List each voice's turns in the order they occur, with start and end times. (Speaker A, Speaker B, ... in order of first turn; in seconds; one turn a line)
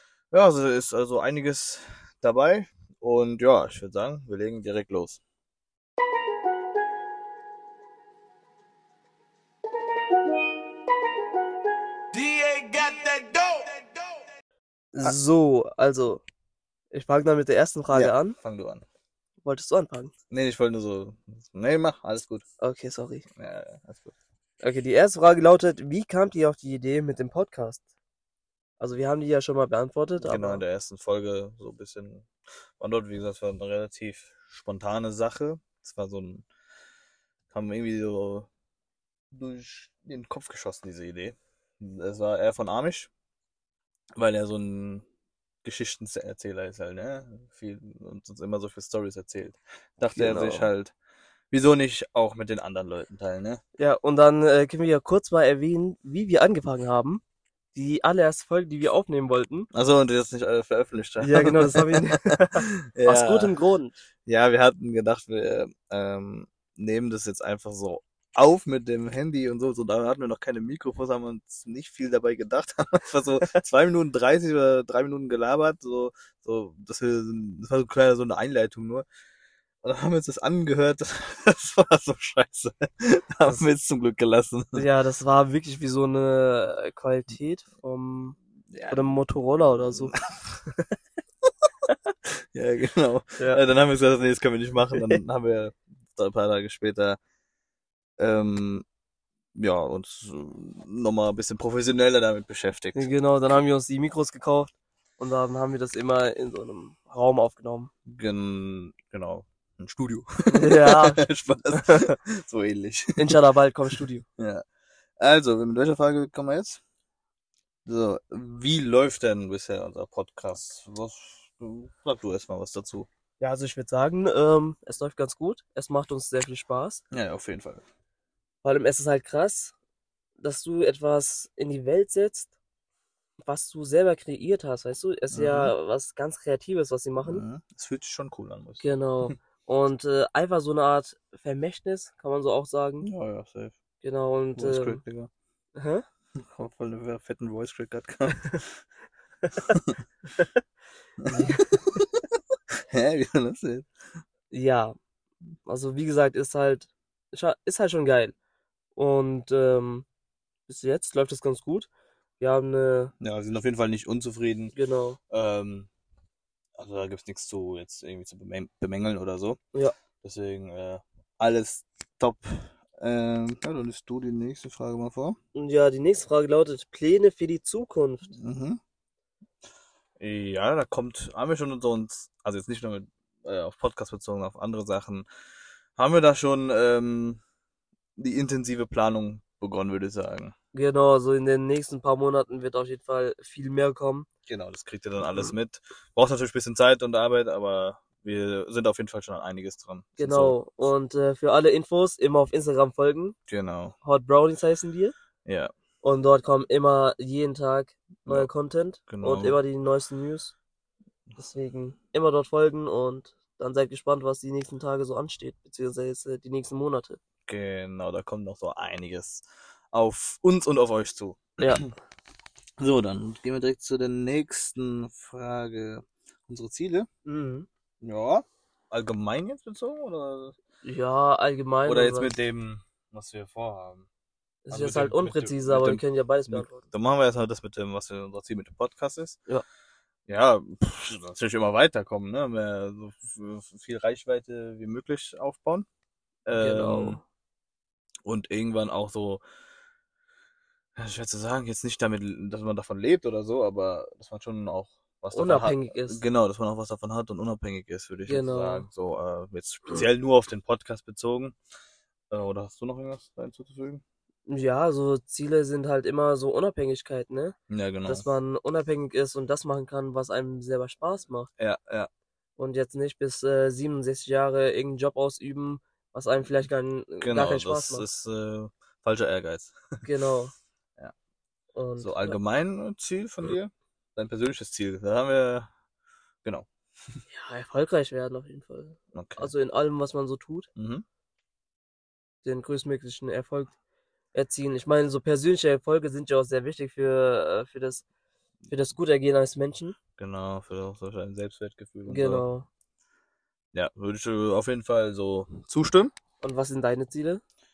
Speaker A: 0.3-5.2
Speaker B: 12.1-14.2
Speaker C: 14.9-16.2
Speaker C: 16.9-18.3
Speaker A: 17.9-18.8
Speaker C: 19.4-20.1
Speaker A: 20.3-22.4
Speaker C: 22.6-23.2
Speaker A: 23.3-24.1
Speaker C: 24.6-27.8
Speaker C: 28.8-30.6
Speaker A: 30.2-32.3
Speaker A: 32.8-36.4
Speaker A: 37.5-38.5
Speaker A: 39.3-43.1
Speaker A: 44.2-45.0
Speaker A: 45.6-50.9
Speaker C: 50.1-50.7
Speaker A: 51.5-53.6
Speaker C: 53.8-57.2
Speaker C: 57.7-59.7
Speaker A: 59.7-63.5
Speaker C: 61.2-64.0
Speaker A: 64.2-79.0
Speaker A: 79.8-84.8
Speaker C: 84.7-88.3
Speaker A: 88.7-89.1
Speaker C: 88.9-90.2
Speaker A: 89.9-90.2
Speaker A: 92.3-97.2
Speaker A: 98.2-98.8
Speaker A: 99.5-103.1
Speaker C: 102.9-107.9
Speaker A: 108.0-113.4
Speaker C: 110.5-112.1
Speaker C: 113.2-114.2
Speaker A: 114.4-114.6
Speaker A: 115.2-116.8
Speaker A: 117.8-123.1
Speaker C: 123.4-127.0
Speaker A: 127.1-127.8
Speaker C: 128.6-129.7
Speaker C: 130.4-132.5
Speaker C: 133.4-137.4
Speaker A: 135.3-135.7
Speaker A: 137.2-139.3
Speaker C: 138.8-143.1
Speaker A: 143.0-143.8
Speaker C: 144.0-145.0
Speaker A: 144.6-145.3
Speaker C: 145.7-146.0
Speaker A: 146.3-148.7
Speaker C: 148.3-148.6
Speaker C: 149.4-149.8
Speaker A: 149.7-150.0
Speaker A: 151.2-152.1
Speaker C: 151.2-152.0
Speaker A: 152.9-153.9
Speaker C: 154.5-154.9
Speaker C: 155.7-158.3
Speaker C: 158.9-160.1
Speaker C: 160.7-161.9
Speaker C: 162.4-163.1
Speaker A: 163.2-164.7
Speaker C: 164.7-165.2
Speaker A: 165.3-165.9
Speaker A: 166.8-169.6
Speaker A: 170.2-175.4
Speaker C: 175.5-178.3
Speaker A: 178.3-178.8
Speaker A: 180.2-185.2
Speaker A: 186.0-187.4
Speaker A: 188.2-190.5
Speaker C: 190.7-194.3
Speaker A: 194.5-200.9
Speaker C: 200.2-203.3
Speaker A: 203.5-203.9
Speaker C: 204.0-205.1
Speaker A: 205.4-205.7
Speaker C: 206.0-210.5
Speaker A: 209.1-209.6
Speaker C: 211.4-217.2
Speaker A: 217.4-221.9
Speaker C: 221.6-221.8
Speaker A: 222.8-227.1
Speaker C: 227.2-227.7
Speaker A: 228.0-230.5
Speaker C: 230.8-232.3
Speaker A: 231.8-234.1
Speaker C: 234.7-236.8
Speaker A: 234.7-239.4
Speaker A: 240.3-245.8
Speaker A: 246.4-247.2
Speaker C: 246.6-247.2
Speaker A: 248.2-249.4
Speaker A: 251.0-261.6
Speaker C: 255.3-256.2
Speaker C: 258.3-258.9
Speaker A: 262.3-264.0
Speaker C: 264.5-271.5
Speaker A: 267.7-268.2
Speaker A: 271.6-272.1
Speaker C: 272.6-278.1
Speaker A: 277.2-280.0
Speaker C: 280.0-280.5
Speaker C: 281.8-282.4
Speaker A: 282.0-285.7
Speaker C: 287.3-290.7
Speaker A: 289.1-289.5
Speaker A: 290.8-291.0
Speaker C: 292.4-293.7
Speaker C: 294.3-298.0
Speaker C: 298.7-299.9
Speaker A: 300.2-302.4
Speaker C: 302.1-302.7
Speaker A: 303.7-306.1
Speaker C: 306.4-307.4